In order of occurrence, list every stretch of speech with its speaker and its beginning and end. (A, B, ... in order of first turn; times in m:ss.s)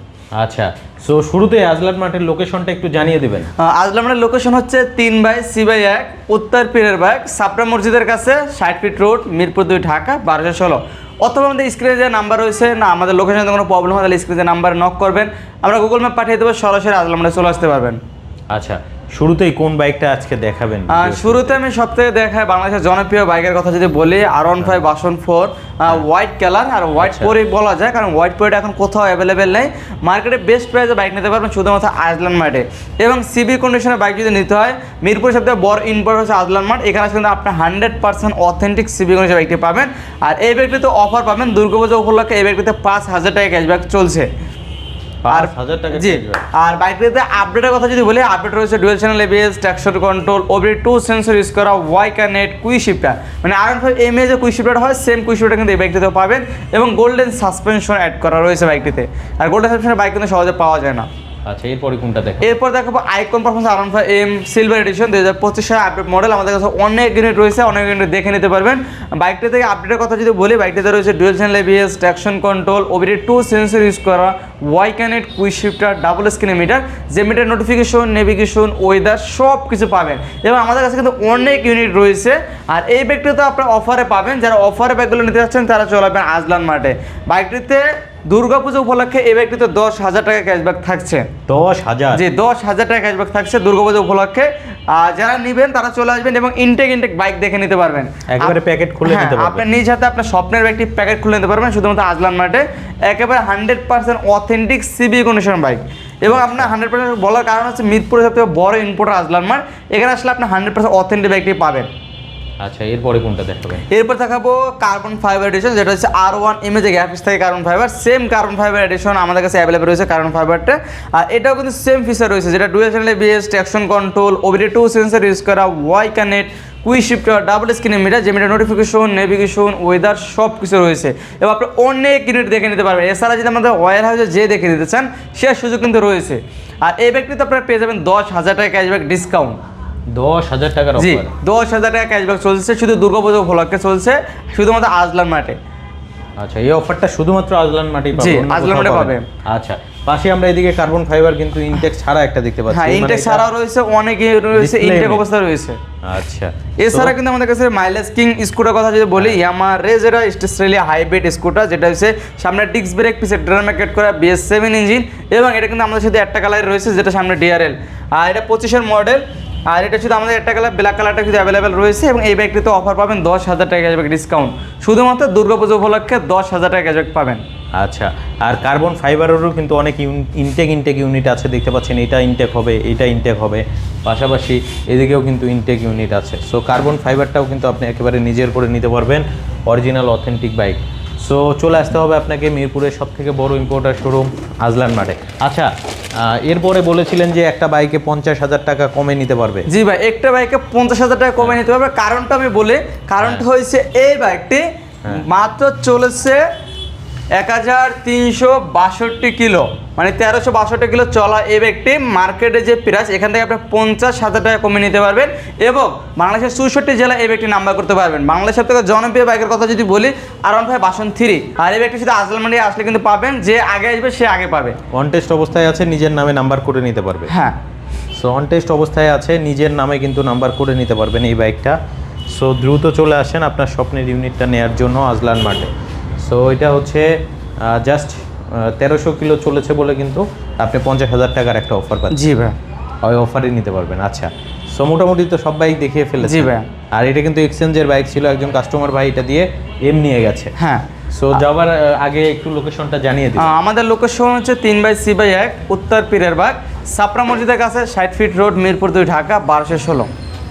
0:00.4-0:03.5 A
0:03.6-0:18.0 B
0:18.5-0:21.6 A
0:20.9-0:44.3 B
0:27.0-0:27.3 A
0:45.2-0:46.4 A
0:45.3-1:01.1 B
1:01.5-1:02.5 A
1:02.4-1:31.3 B
1:31.5-1:32.2 A
1:32.1-1:51.9 B
1:38.3-1:39.6 A
1:46.3-1:46.7 A
1:52.6-1:53.8 A
1:53.9-2:19.6 B
2:20.1-2:21.3 A
2:21.0-2:25.6 B
2:26.4-2:33.4 A
2:28.1-2:29.3 B
2:32.7-2:35.8 B
2:34.5-2:35.2 A
2:36.0-2:37.1 A
2:36.8-2:57.4 B
2:57.8-3:15.7 A
3:16.2-3:19.7 A
3:19.7-3:26.4 B
3:23.2-3:23.4 A
3:27.3-3:44.8 B
3:44.9-3:47.3 A
3:47.3-3:47.6 B
3:48.2-3:51.8 A
3:52.3-3:55.7 A
3:56.2-3:57.1 A
3:57.6-4:02.2 A
4:02.1-4:02.6 B
4:03.0-4:10.5 A
4:06.2-4:06.7 B
4:10.6-4:11.4 B
4:11.1-4:13.5 A
4:13.4-4:20.1 B